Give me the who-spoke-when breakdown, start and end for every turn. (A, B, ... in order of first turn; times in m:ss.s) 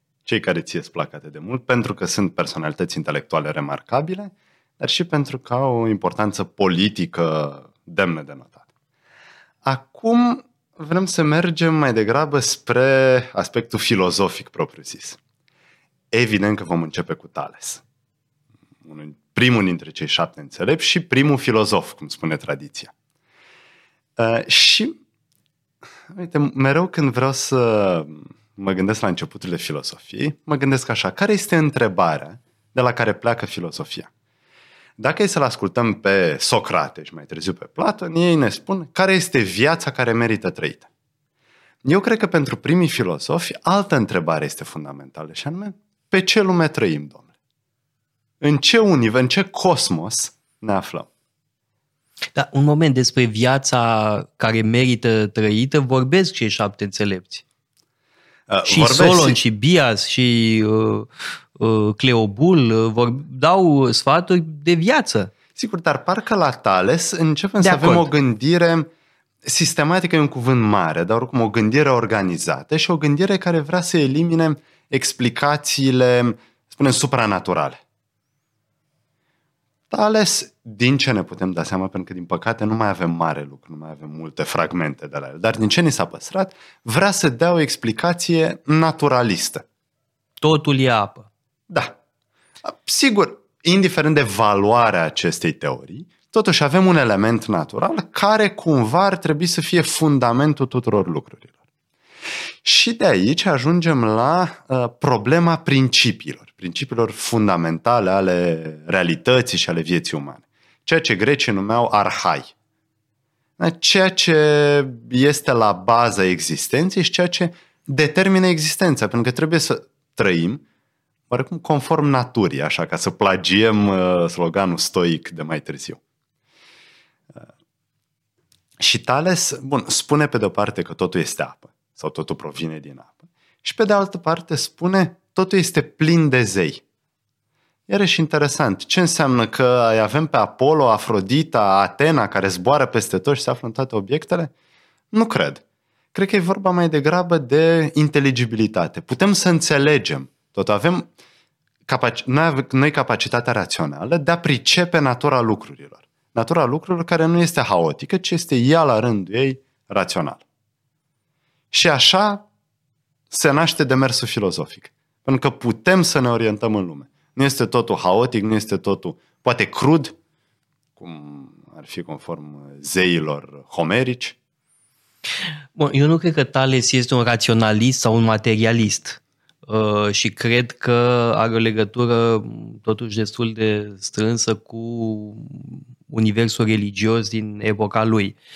0:00.3-0:08.6 A
0:09.6-0:15.2 A
0:16.1-0:17.8 A
0:18.8-0:22.9 A
0:24.2-0:25.0 A
0:26.1-0:34.1 A
0:35.0-0:40.9 A
0:41.8-0:47.3 A
0:48.4-0:51.1 A
0:52.4-0:57.4 B
0:58.5-0:59.4 A
0:58.7-1:05.3 B
1:05.6-1:08.9 A
1:07.6-1:08.1 B
1:09.4-1:17.8 A
1:19.9-1:29.6 A
1:30.4-1:31.3 B
1:31.7-1:32.0 A
1:32.6-1:41.5 A
1:42.6-1:52.5 A
1:53.6-2:00.6 A
2:01.3-2:06.0 A
2:08.8-2:16.8 A
2:17.9-2:24.5 A
2:25.1-2:25.6 A
2:26.1-2:31.1 A
2:31.9-2:40.4 A
2:41.7-2:42.5 A
2:43.3-2:50.1 A
2:51.0-2:54.4 A
2:55.8-3:08.4 B